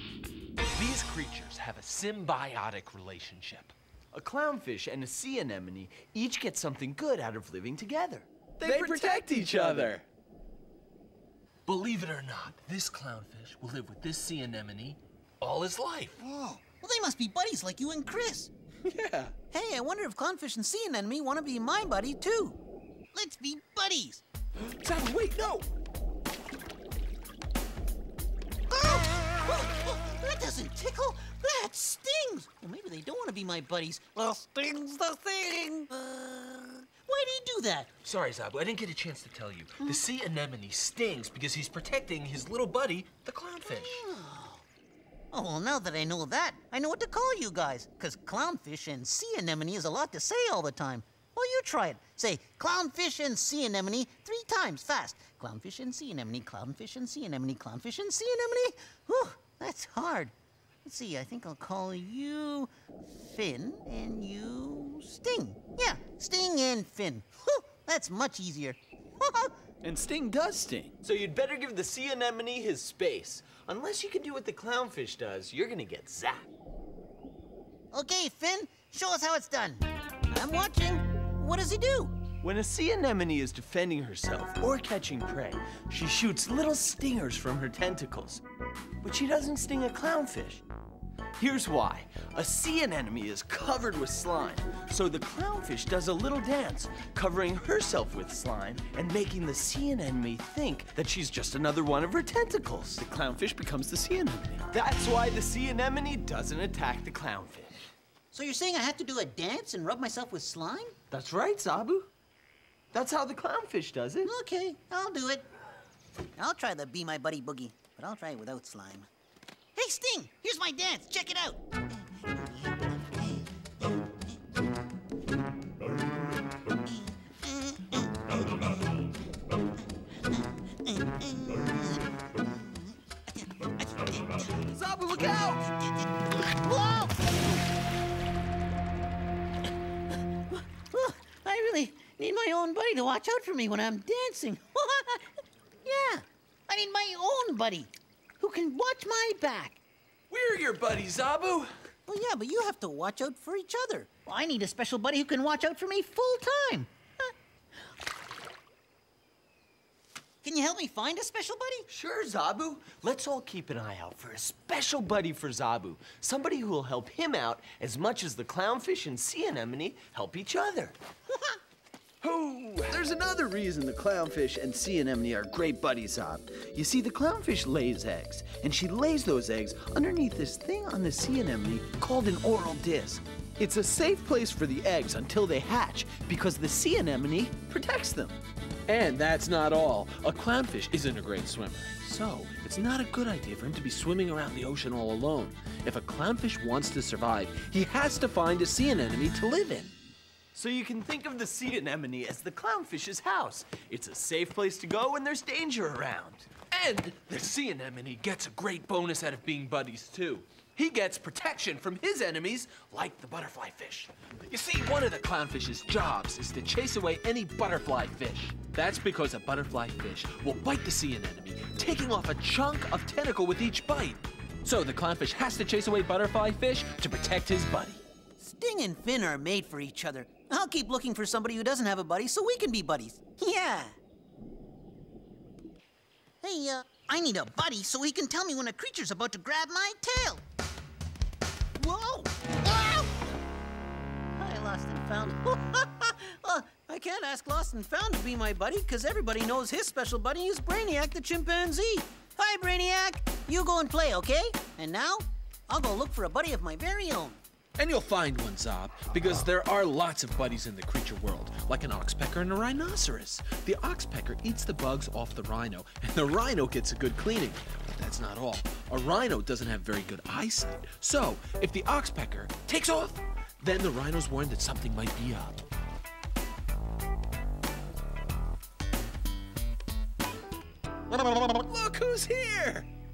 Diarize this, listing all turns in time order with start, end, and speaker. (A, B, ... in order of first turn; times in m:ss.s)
0:00.8-0:03.8 A
0:04.1-0:10.0 B
0:08.6-0:10.0 A
0:11.7-0:16.2 A
0:16.2-0:18.5 C
0:18.8-0:19.3 A
0:19.5-0:22.6 C
0:23.1-0:24.2 C
0:24.6-0:25.7 A
0:28.7-0:37.9 C
0:38.0-0:44.0 A
0:43.6-0:44.6 C
0:45.3-1:00.3 C
1:00.8-1:09.5 C
1:09.8-1:10.9 A
1:11.0-1:16.5 B
1:17.9-1:22.2 C
1:22.4-1:28.4 B
1:29.0-1:30.6 B
1:31.4-1:47.9 B
1:48.3-1:51.0 C
1:51.1-1:52.1 B
1:52.9-1:54.3 B
1:54.2-1:55.5 C
1:56.4-1:59.1 C
1:59.8-2:03.5 C
2:06.9-2:08.6 C
2:10.8-2:15.9 C
2:14.7-2:15.6 B
2:16.4-2:17.5 C
2:20.5-2:25.3 C
2:25.8-2:29.8 C
2:30.3-2:31.7 A
2:32.1-2:37.3 C
2:40.4-2:41.9 C
2:41.9-2:51.0 B
2:52.2-2:53.0 A
2:52.8-3:08.4 B
3:08.9-3:20.0 A
3:20.5-3:26.5 B
3:26.7-3:48.0 A
3:48.4-3:54.0 C
3:56.4-4:00.4 C
4:01.8-4:03.2 C
4:04.4-4:17.4 C
4:17.8-4:35.6 A
4:41.1-4:42.9 A